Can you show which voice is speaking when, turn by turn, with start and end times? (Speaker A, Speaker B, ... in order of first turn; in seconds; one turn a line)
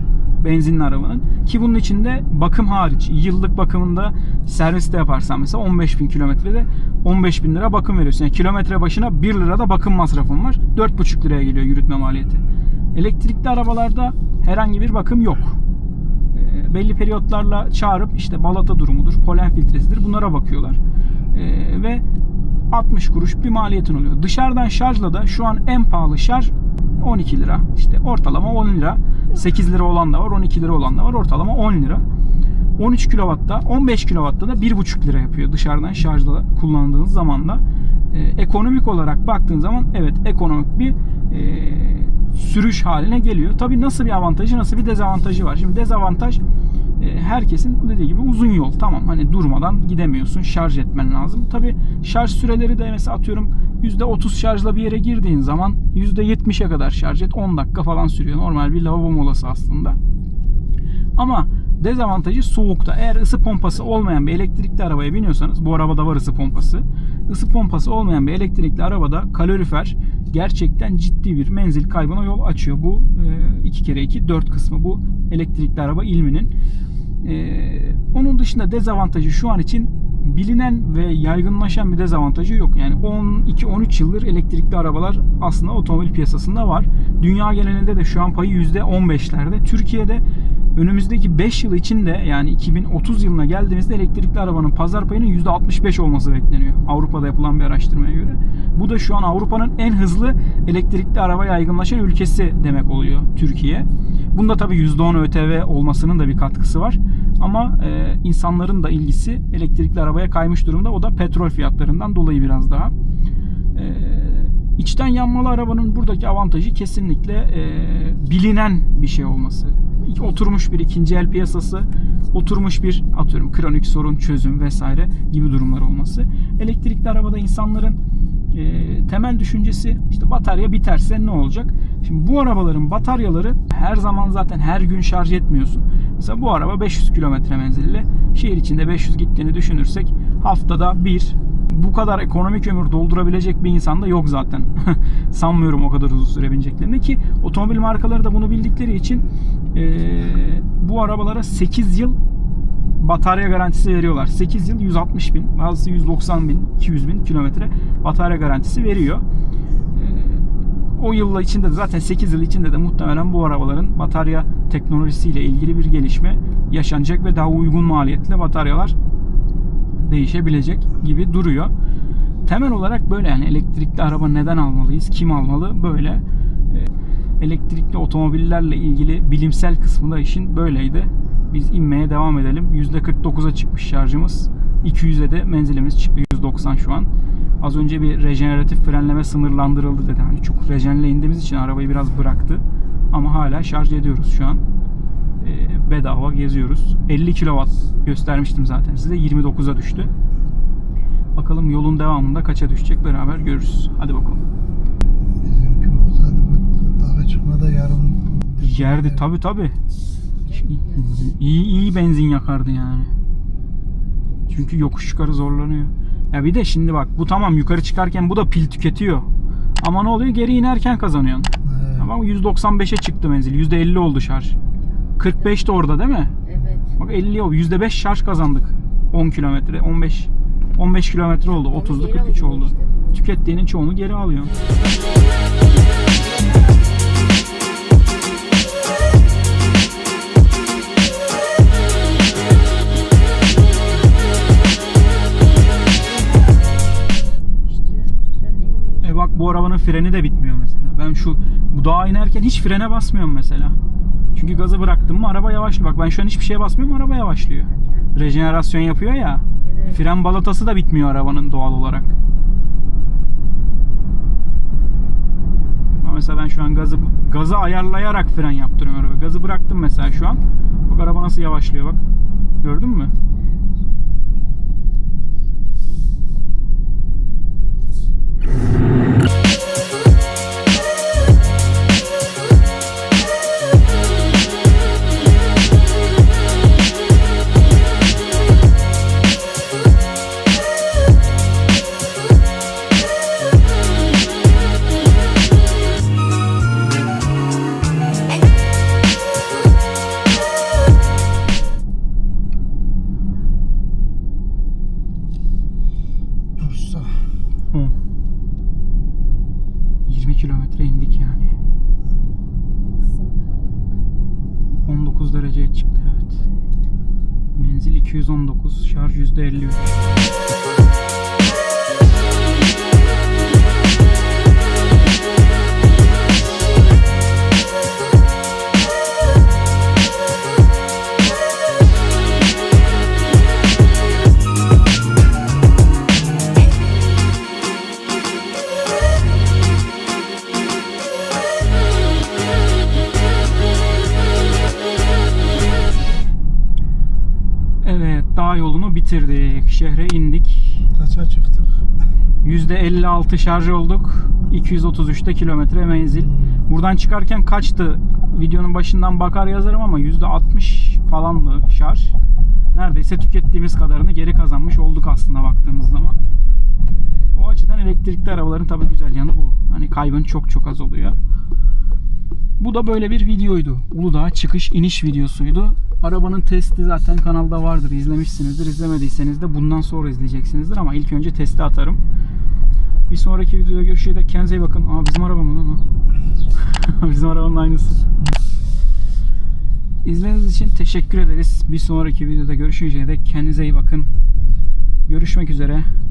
Speaker A: 0.4-12.4
Speaker A: 12.9-15.6
Speaker A: 16.3-20.8
Speaker A: 21.3-22.0
Speaker A: 22.7-32.0
Speaker A: 32.8-46.4
Speaker A: 47.0-60.0
Speaker A: 61.2-76.5
Speaker A: 77.2-90.2
Speaker A: 90.8-112.9
Speaker A: 113.8-128.0
Speaker A: 128.5-152.2
Speaker A: 153.0-159.2
Speaker A: 159.9-168.9
Speaker A: 170.0-171.7
Speaker A: 172.5-187.1
Speaker A: 187.6-194.6
Speaker A: 195.4-200.1
Speaker A: 201.4-204.4
Speaker B: 205.5-208.5
Speaker A: 208.5-209.8
Speaker C: 210.4-211.4
Speaker A: 210.5-213.1
Speaker A: 214.5-219.3
Speaker A: 219.8-224.6
Speaker C: 224.8-225.6
Speaker A: 225.2-226.3
Speaker C: 226.4-227.0
Speaker A: 227.0-234.6
Speaker C: 231.6-233.3
Speaker C: 234.8-235.3
Speaker C: 247.5-249.4
Speaker A: 249.0-253.8
Speaker A: 254.3-262.1
Speaker C: 254.4-255.2
Speaker C: 257.7-258.1
Speaker C: 259.6-260.1
Speaker A: 266.0-272.0
Speaker A: 272.6-273.1
Speaker C: 273.4-273.8
Speaker A: 310.1-311.6
Speaker C: 313.0-314.0
Speaker A: 314.9-316.4
Speaker C: 316.4-316.8
Speaker A: 317.5-320.0
Speaker A: 347.8-350.9
Speaker A: 352.4-362.2
Speaker A: 362.7-366.2
Speaker A: 366.9-371.2
Speaker A: 372.6-382.0
Speaker A: 383.1-385.8
Speaker A: 386.6-388.0
Speaker A: 390.0-394.1
Speaker A: 395.1-395.9